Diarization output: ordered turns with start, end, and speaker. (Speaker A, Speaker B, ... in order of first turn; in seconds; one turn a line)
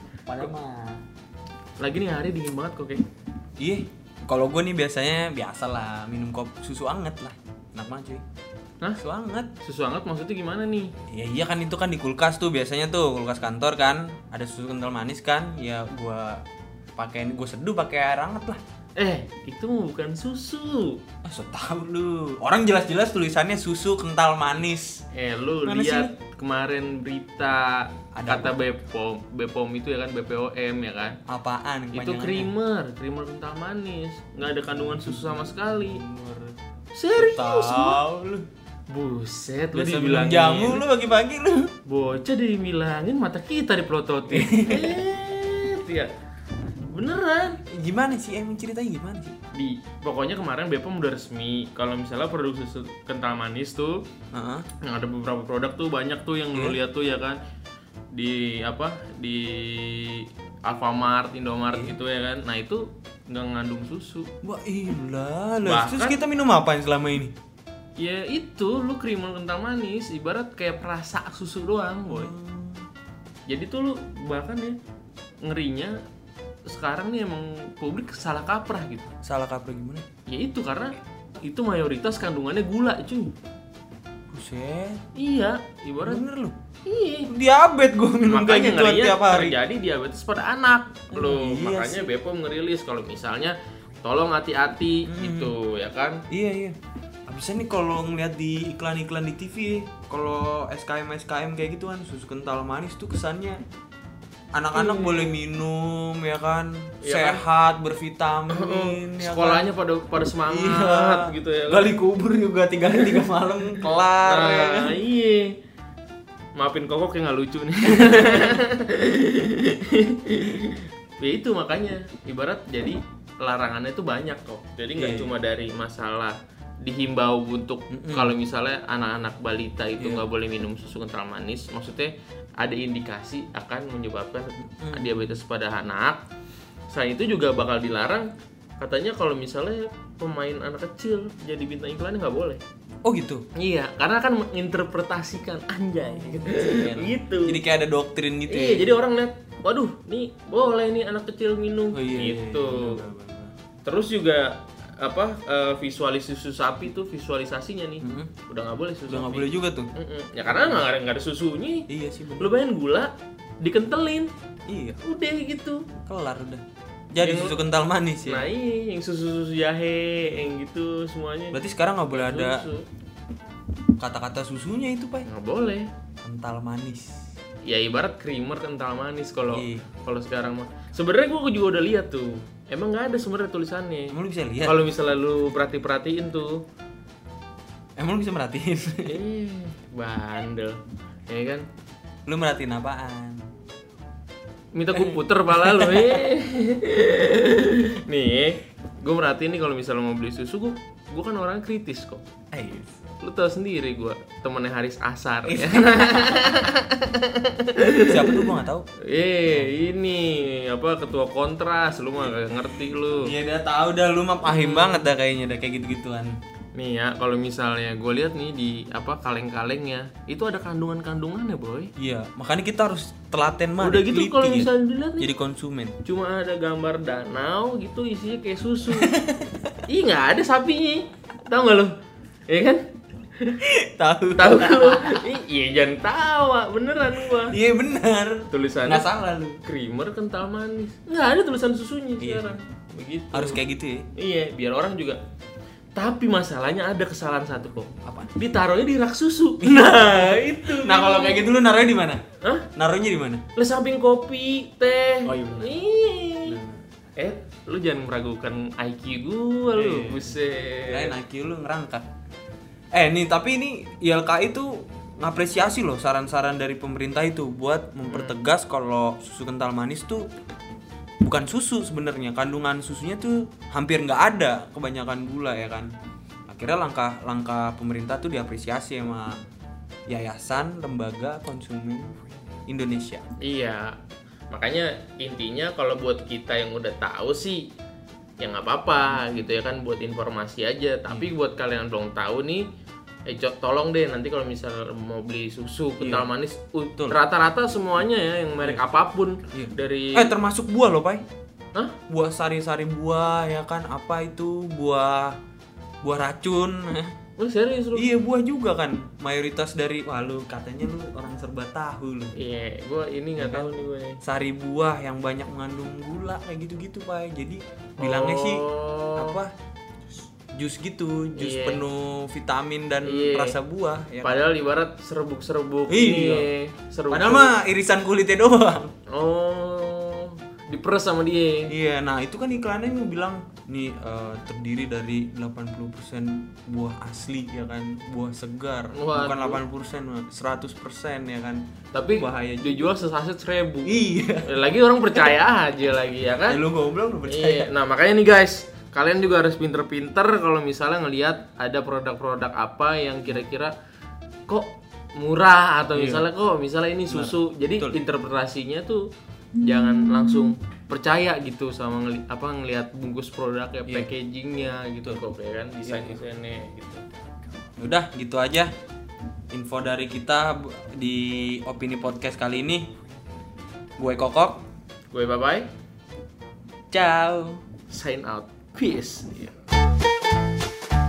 Speaker A: 0.2-1.0
Speaker B: 1.8-3.0
Speaker A: 3.6-8.2
Speaker A: 9.0-9.5
Speaker B: 9.6-10.9
Speaker A: 11.1-16.4
Speaker A: 16.9-18.6
Speaker B: 18.9-21.0
Speaker A: 21.2-25.0
Speaker B: 25.1-31.2
Speaker A: 25.6-26.1
Speaker A: 28.1-28.6
Speaker A: 31.3-32.5
Speaker B: 31.9-36.0
Speaker A: 34.7-36.5
Speaker B: 36.9-38.0
Speaker A: 37.1-38.5
Speaker B: 38.9-40.8
Speaker A: 39.7-41.7
Speaker B: 41.9-46.1
Speaker A: 44.3-45.0
Speaker B: 46.9-47.6
Speaker A: 47.7-49.4
Speaker B: 49.5-54.0
Speaker A: 54.3-54.7
Speaker B: 54.8-57.4
Speaker B: 58.1-64.3
Speaker A: 61.7-62.0
Speaker A: 64.4-67.3
Speaker B: 65.6-66.2
Speaker B: 68.0-72.3
Speaker A: 72.1-72.9
Speaker B: 73.5-74.8
Speaker B: 75.4-76.0
Speaker B: 76.7-79.1
Speaker A: 79.2-80.0
Speaker B: 80.3-83.3
Speaker A: 84.3-85.0
Speaker B: 85.1-86.2
Speaker A: 86.0-86.5
Speaker B: 86.8-87.3
Speaker A: 87.3-89.6
Speaker B: 88.3-96.2
Speaker A: 91.1-92.1
Speaker A: 95.0-95.5
Speaker A: 96.3-96.8
Speaker A: 97.3-103.6
Speaker A: 104.5-109.7
Speaker B: 104.7-105.3
Speaker B: 107.0-107.4
Speaker B: 108.5-111.9
Speaker A: 110.5-115.0
Speaker B: 112.9-115.5
Speaker B: 116.5-136.2
Speaker A: 117.9-118.4
Speaker A: 125.0-125.3
Speaker A: 127.9-128.3
Speaker A: 130.0-130.2
Speaker A: 134.6-135.4
Speaker B: 136.9-142.6
Speaker A: 143.0-143.4
Speaker B: 143.5-147.6
Speaker A: 146.0-149.0
Speaker B: 148.5-153.1
Speaker A: 151.9-153.5
Speaker B: 153.8-161.9
Speaker A: 158.0-158.3
Speaker A: 159.1-159.9
Speaker A: 160.4-160.8
Speaker A: 161.9-162.5
Speaker B: 162.4-164.3
Speaker A: 164.7-165.0
Speaker B: 165.0-165.9
Speaker A: 166.0-168.5
Speaker B: 167.2-167.6
Speaker B: 168.2-171.6
Speaker A: 170.2-170.6
Speaker A: 171.5-172.6
Speaker B: 172.1-172.8
Speaker A: 174.0-175.3
Speaker B: 175.2-175.9
Speaker A: 176.2-177.2
Speaker B: 177.6-186.6
Speaker A: 179.5-179.8
Speaker A: 184.1-184.8
Speaker A: 188.0-189.2
Speaker B: 189.0-191.7
Speaker A: 192.2-193.5
Speaker B: 194.7-202.2
Speaker A: 194.9-196.2
Speaker A: 202.5-203.0
Speaker B: 203.2-208.5
Speaker A: 205.5-206.7
Speaker A: 208.0-208.8
Speaker B: 209.0-213.3
Speaker A: 209.5-209.8
Speaker A: 213.1-216.4
Speaker B: 214.4-215.1
Speaker B: 216.7-221.9
Speaker A: 222.0-226.0
Speaker B: 223.8-225.3
Speaker B: 226.0-229.1
Speaker A: 228.9-229.7
Speaker B: 229.9-231.9
Speaker B: 232.5-232.8
Speaker B: 233.4-233.6
Speaker A: 233.6-235.3
Speaker B: 234.3-237.6
Speaker A: 237.4-239.6
Speaker B: 238.5-239.1
Speaker B: 239.6-243.6
Speaker A: 242.2-242.6
Speaker A: 243.3-244.1
Speaker B: 244.1-245.2
Speaker B: 245.9-251.5
Speaker A: 248.0-248.3
Speaker A: 249.6-252.2
Speaker B: 252.4-252.7
Speaker A: 252.8-253.4
Speaker B: 253.6-256.6
Speaker A: 255.2-255.8
Speaker A: 256.4-256.8
Speaker B: 257.2-261.1
Speaker A: 259.7-260.3
Speaker A: 260.9-262.1
Speaker A: 262.9-270.2
Speaker B: 268.1-268.4
Speaker A: 271.2-275.9
Speaker A: 276.5-279.4
Speaker A: 280.1-283.2
Speaker B: 283.4-284.0
Speaker B: 284.5-287.7
Speaker B: 288.4-292.6
Speaker A: 291.1-291.3
Speaker B: 293.2-300.3
Speaker A: 296.0-296.3
Speaker A: 299.5-301.2
Speaker A: 302.1-305.4
Speaker A: 306.0-307.1
Speaker B: 307.4-308.1
Speaker A: 307.9-312.3
Speaker B: 312.3-314.2
Speaker A: 313.4-313.7
Speaker A: 314.2-318.6
Speaker B: 318.0-319.4
Speaker A: 319.2-319.5
Speaker A: 320.6-324.4
Speaker B: 321.4-321.8
Speaker B: 323.0-323.6
Speaker B: 324.2-327.6
Speaker A: 325.9-326.5
Speaker A: 327.1-328.9
Speaker B: 329.1-331.7
Speaker A: 331.7-342.9
Speaker B: 338.9-339.6
Speaker B: 341.9-346.6
Speaker A: 343.8-345.3
Speaker A: 346.4-347.7
Speaker B: 347.2-353.7
Speaker B: 354.5-359.1
Speaker A: 355.9-356.3
Speaker A: 357.1-358.0
Speaker B: 359.6-367.0
Speaker A: 363.9-364.1
Speaker A: 365.8-366.2
Speaker A: 367.8-368.7
Speaker A: 369.5-372.9
Speaker A: 374.0-374.6
Speaker B: 375.1-375.7
Speaker A: 376.9-377.6
Speaker B: 377.9-379.6